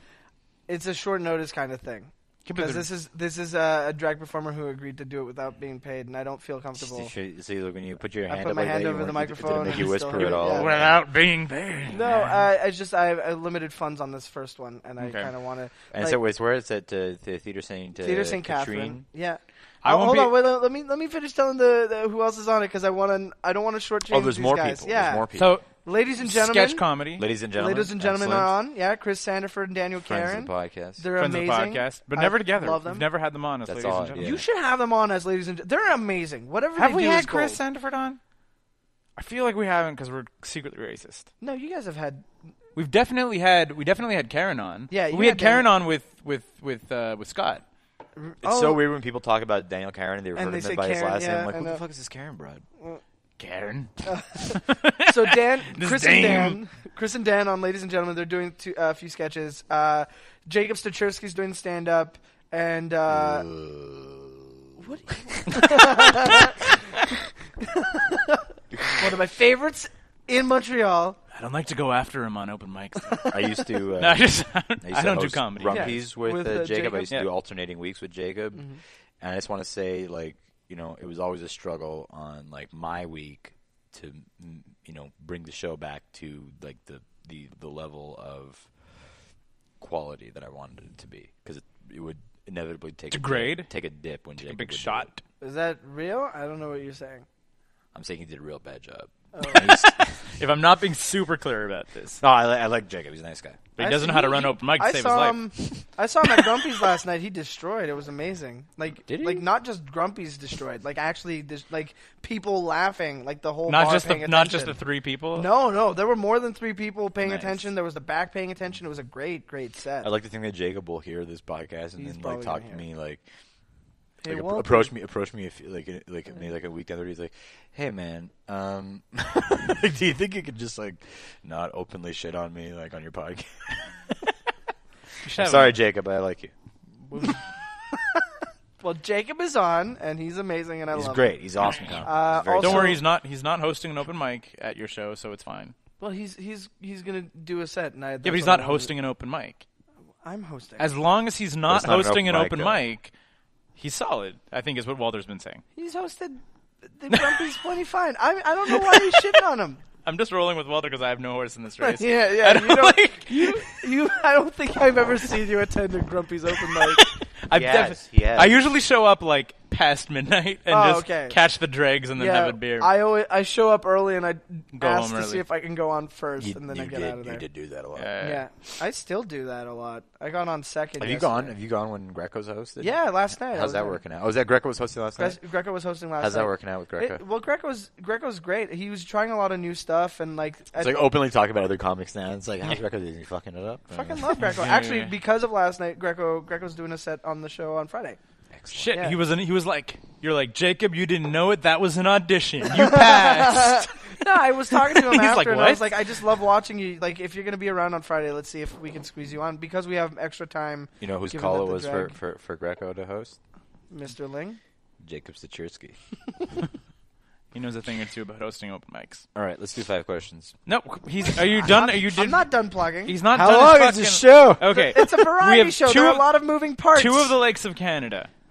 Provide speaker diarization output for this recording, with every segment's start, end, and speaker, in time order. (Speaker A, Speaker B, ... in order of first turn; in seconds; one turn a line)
Speaker A: 0.7-7.1
Speaker B: 2.5-2.9
Speaker C: 6.8-11.0
Speaker A: 8.3-10.8
Speaker B: 9.7-12.4
Speaker A: 11.9-16.2
Speaker B: 15.0-15.3
Speaker C: 15.9-19.1
Speaker A: 18.0-25.3
Speaker B: 19.8-20.4
Speaker C: 24.1-25.6
Speaker B: 25.4-25.7
Speaker A: 25.8-26.9
Speaker B: 26.2-27.3
Speaker C: 27.2-28.6
Speaker A: 27.6-33.1
Speaker C: 30.1-31.1
Speaker B: 31.2-34.3
Speaker C: 33.7-34.5
Speaker A: 34.2-37.6
Speaker B: 36.8-38.2
Speaker B: 39.2-41.3
Speaker A: 41.4-42.3
Speaker B: 42.8-47.6
Speaker A: 44.9-45.7
Speaker A: 48.2-48.8
Speaker C: 48.4-52.6
Speaker A: 50.4-51.8
Speaker B: 53.4-56.6
Speaker A: 54.0-63.5
Speaker C: 63.1-64.5
Speaker A: 64.8-66.7
Speaker C: 65.3-65.6
Speaker B: 65.6-66.4
Speaker A: 67.6-71.2
Speaker C: 68.7-69.1
Speaker B: 71.3-73.4
Speaker C: 73.3-74.3
Speaker B: 74.0-76.0
Speaker C: 74.8-78.7
Speaker A: 75.7-77.2
Speaker A: 78.5-78.8
Speaker C: 79.2-88.7
Speaker C: 89.8-95.1
Speaker B: 93.1-93.7
Speaker B: 94.4-95.2
Speaker A: 95.4-97.3
Speaker C: 97.9-100.3
Speaker A: 99.3-99.7
Speaker B: 100.4-102.2
Speaker C: 102.2-103.7
Speaker B: 103.8-105.8
Speaker A: 103.8-114.8
Speaker C: 109.1-109.5
Speaker B: 113.7-115.5
Speaker A: 115.3-120.1
Speaker B: 117.2-117.6
Speaker C: 120.0-123.2
Speaker A: 122.0-122.8
Speaker A: 124.2-124.9
Speaker C: 124.3-133.9
Speaker B: 135.2-135.8
Speaker C: 135.4-136.5
Speaker B: 137.1-137.4
Speaker A: 138.8-141.4
Speaker C: 140.9-143.0
Speaker A: 142.0-143.0
Speaker B: 142.6-145.8
Speaker A: 146.0-148.9
Speaker B: 148.2-149.6
Speaker A: 150.2-150.9
Speaker B: 150.8-153.1
Speaker C: 151.7-152.8
Speaker B: 153.8-155.6
Speaker A: 155.8-159.8
Speaker B: 157.1-157.4
Speaker B: 158.7-159.3
Speaker B: 160.1-163.8
Speaker A: 161.8-167.0
Speaker B: 166.7-172.9
Speaker C: 167.5-168.6
Speaker A: 170.7-171.4
Speaker A: 172.2-177.4
Speaker B: 174.8-175.4
Speaker C: 176.4-178.2
Speaker B: 178.0-178.5
Speaker A: 178.2-181.5
Speaker C: 181.0-185.4
Speaker A: 182.8-184.0
Speaker A: 185.2-191.1
Speaker C: 186.2-187.2
Speaker C: 190.8-194.3
Speaker A: 193.9-198.2
Speaker B: 194.4-195.1
Speaker C: 198.5-198.9
Speaker B: 198.7-204.1
Speaker A: 198.9-199.2
Speaker A: 202.8-212.1
Speaker B: 204.7-206.0
Speaker C: 211.0-213.4
Speaker A: 213.9-214.6
Speaker C: 215.0-216.0
Speaker B: 217.5-219.2
Speaker C: 219.3-220.5
Speaker B: 220.7-222.5
Speaker A: 221.6-227.3
Speaker B: 223.1-226.3
Speaker C: 223.3-224.6
Speaker B: 226.9-228.3